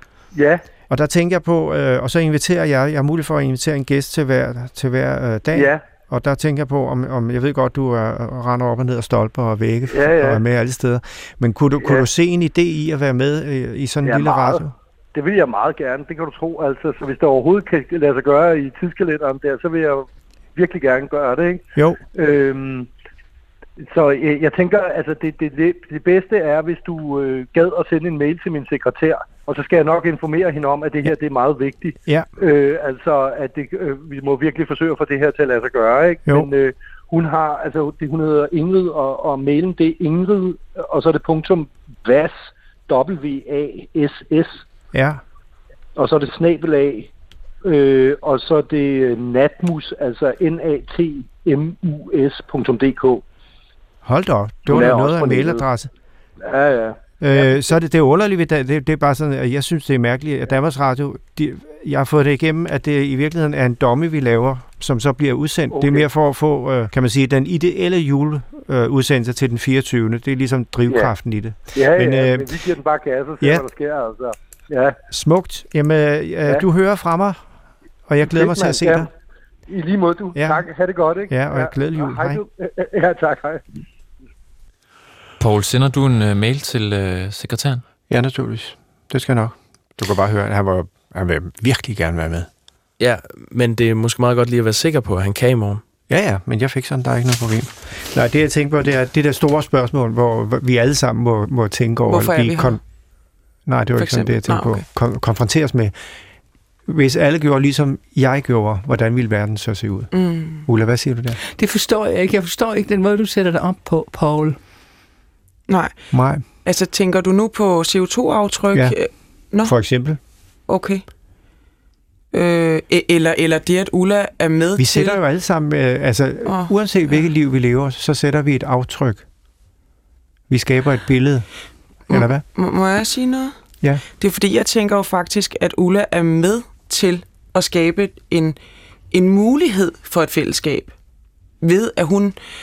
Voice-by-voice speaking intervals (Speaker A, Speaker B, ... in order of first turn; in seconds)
Speaker A: 0.3-0.6, 5.5-5.8, 9.9-10.4, 14.0-14.6, 15.1-22.9, 23.8-42.4, 42.9-44.6, 46.0-47.1, 47.6-53.2, 54.6-55.6, 56.4-57.5, 65.7-66.0, 70.9-71.1, 71.7-75.0, 78.2-79.1, 79.7-83.6
Speaker B: 0.9-14.7, 21.8-22.0, 44.9-45.2, 54.0-55.9, 57.2-72.5, 75.1-77.4, 78.1-79.1, 80.3-80.7, 81.3-82.4, 88.1-92.5, 96.1-102.8, 103.7-105.9, 106.9-111.4, 116.1-116.4, 119.6-120.2, 124.8-129.2, 130.5-131.4, 132.1-132.4
Speaker C: 85.4-87.8
Speaker D: 93.0-95.8
Speaker E: 102.1-102.8, 104.0-104.8, 110.1-110.7, 115.7-116.1, 116.6-119.7, 120.7-121.0, 122.3-125.2, 126.5-127.2, 132.1-133.5, 134.2-138.6, 139.1-140.9, 141.6-142.3
Speaker F: 111.5-114.6